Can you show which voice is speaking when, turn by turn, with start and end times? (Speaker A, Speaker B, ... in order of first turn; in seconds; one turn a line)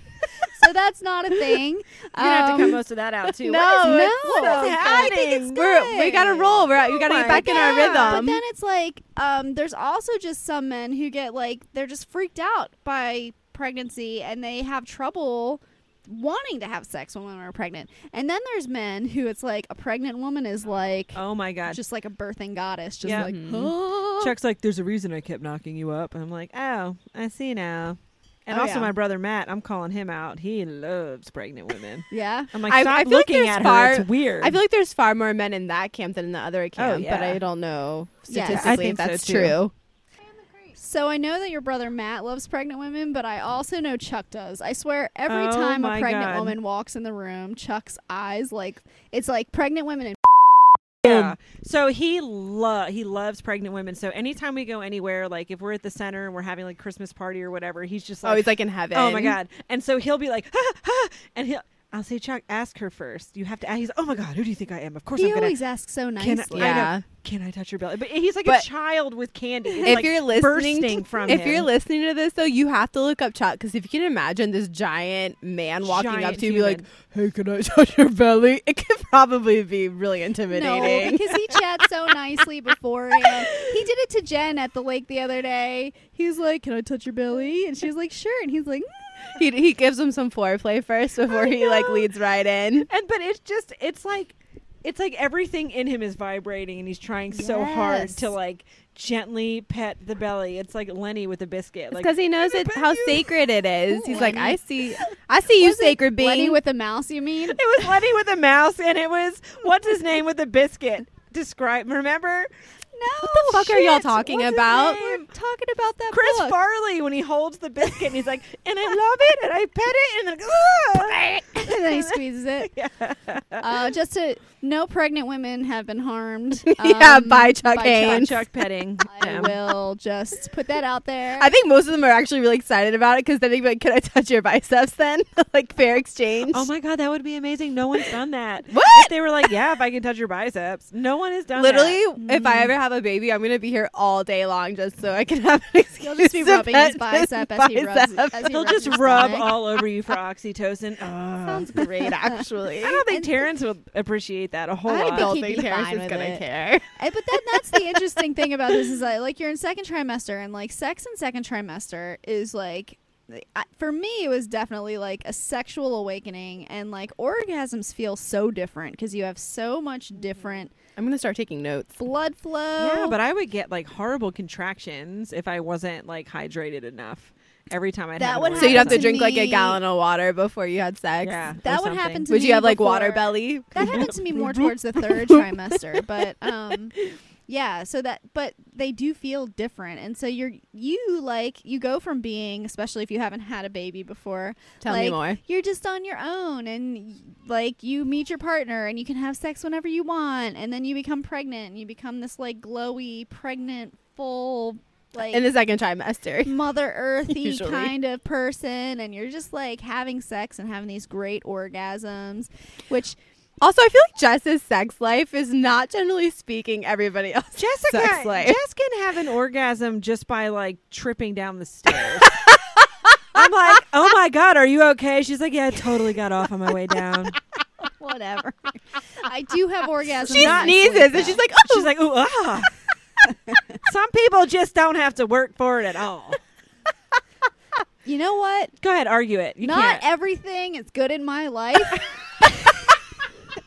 Speaker A: 0.4-2.8
Speaker B: 2.2-5.6
Speaker C: 3.3-8.4
Speaker A: 3.5-24.3
Speaker B: 6.9-8.3
Speaker B: 21.1-21.8
Speaker B: 23.0-34.6
Speaker C: 23.1-23.8
Speaker A: 28.5-28.9
Speaker A: 32.1-32.5
Speaker C: 32.7-39.7
Speaker B: 36.8-37.4
Speaker A: 38.3-38.8
Speaker B: 38.4-39.6
Speaker A: 40.8-50.6
Speaker B: 45.3-46.6
Speaker B: 51.0-65.6
Speaker C: 51.1-51.3
Speaker C: 58.2-59.4
Speaker A: 65.2-66.9
Speaker B: 66.2-71.7
Speaker C: 66.5-67.0
Speaker C: 69.8-81.3
Speaker B: 75.8-76.8
Speaker A: 80.5-89.3
Speaker C: 89.4-92.9
Speaker B: 92.9-103.4
Speaker A: 97.3-98.3
Speaker C: 101.9-106.6
Speaker A: 103.9-104.6
Speaker A: 105.6-107.7
Speaker B: 107.5-112.5
Speaker A: 112.9-116.6
Speaker C: 113.2-115.0
Speaker B: 114.8-115.3
Speaker B: 116.1-123.7
Speaker A: 121.5-122.7
Speaker A: 123.6-128.4
Speaker C: 126.7-128.4
Speaker B: 127.8-129.6
Speaker A: 129.1-131.5
Speaker C: 131.4-136.7
Speaker B: 136.5-142.0
Speaker C: 138.7-139.1
Speaker C: 141.6-149.2
Speaker A: 142.2-142.7
Speaker A: 146.0-149.6
Speaker B: 148.5-151.9
Speaker C: 151.5-153.0
Speaker B: 152.8-155.3
Speaker A: 154.9-156.4
Speaker C: 155.0-156.9
Speaker A: 157.0-170.7
Speaker C: 171.0-171.9
Speaker A: 172.0-173.2
Speaker B: 172.8-179.2
Speaker A: 178.2-179.8
Speaker C: 178.6-181.4
Speaker B: 181.2-182.3
Speaker A: 181.6-187.0
Speaker C: 182.3-185.5
Speaker B: 183.8-184.1
Speaker A: 187.5-205.5
Speaker C: 194.8-195.4
Speaker C: 205.2-206.6
Speaker A: 206.4-213.2
Speaker C: 207.3-207.9
Speaker C: 213.6-218.6
Speaker B: 217.6-222.6
Speaker C: 222.3-223.4
Speaker B: 223.3-227.4
Speaker A: 227.8-231.4
Speaker C: 230.3-231.9
Speaker B: 230.3-232.7
Speaker B: 233.8-236.4
Speaker A: 238.1-238.7
Speaker B: 238.8-240.1
Speaker A: 239.6-242.9